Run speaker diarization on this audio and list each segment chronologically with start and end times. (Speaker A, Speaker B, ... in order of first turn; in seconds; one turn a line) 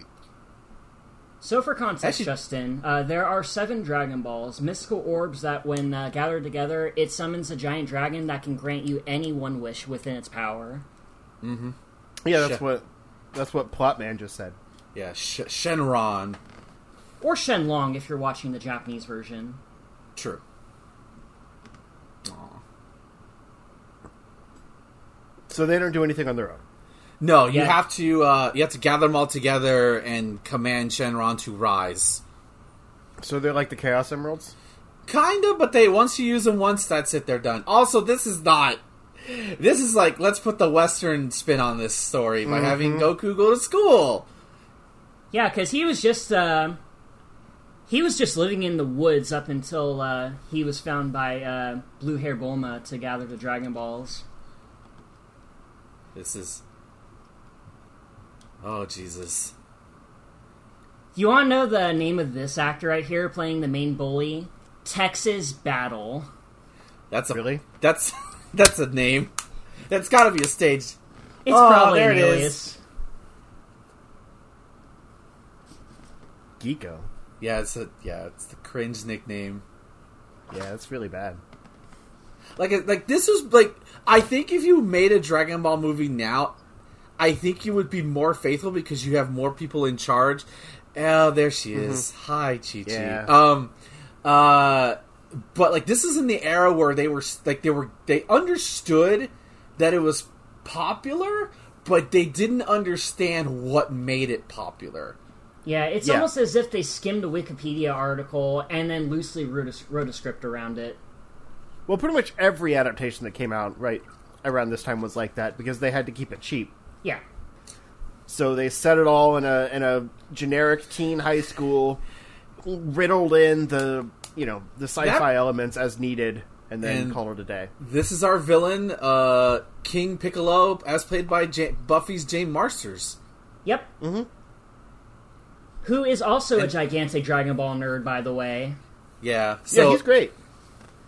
Speaker A: 1.4-10.8
Speaker B: 2.0-2.3
Speaker B: 11.4-11.8
Speaker C: 12.2-14.6
Speaker B: 12.3-12.6
Speaker B: 14.9-16.4
Speaker A: 17.2-19.6
Speaker B: 20.1-20.4
Speaker B: 22.2-22.6
Speaker C: 25.5-26.6
Speaker B: 27.2-32.2
Speaker A: 27.5-27.8
Speaker C: 33.2-34.5
Speaker B: 35.0-44.3
Speaker C: 42.4-43.1
Speaker A: 45.3-46.8
Speaker A: 47.9-54.2
Speaker B: 56.1-56.6
Speaker B: 58.6-59.5
Speaker A: 61.1-66.3
Speaker B: 67.1-69.3
Speaker C: 67.3-67.6
Speaker B: 69.9-72.6
Speaker A: 71.4-72.8
Speaker C: 76.6-77.1
Speaker B: 77.4-79.6
Speaker C: 80.5-81.4
Speaker B: 82.6-86.6
Speaker B: 87.2-93.7
Speaker C: 91.7-92.0
Speaker C: 92.8-93.3
Speaker B: 94.2-105.2
Speaker A: 105.6-111.0
Speaker C: 106.0-106.3
Speaker C: 111.9-116.7
Speaker C: 118.3-122.0
Speaker C: 122.6-127.7
Speaker B: 125.0-125.3
Speaker B: 126.8-127.2
Speaker B: 127.8-133.2
Speaker A: 133.6-133.9
Speaker C: 134.0-134.3
Speaker A: 135.8-138.8
Speaker B: 139.2-140.0
Speaker C: 139.7-140.3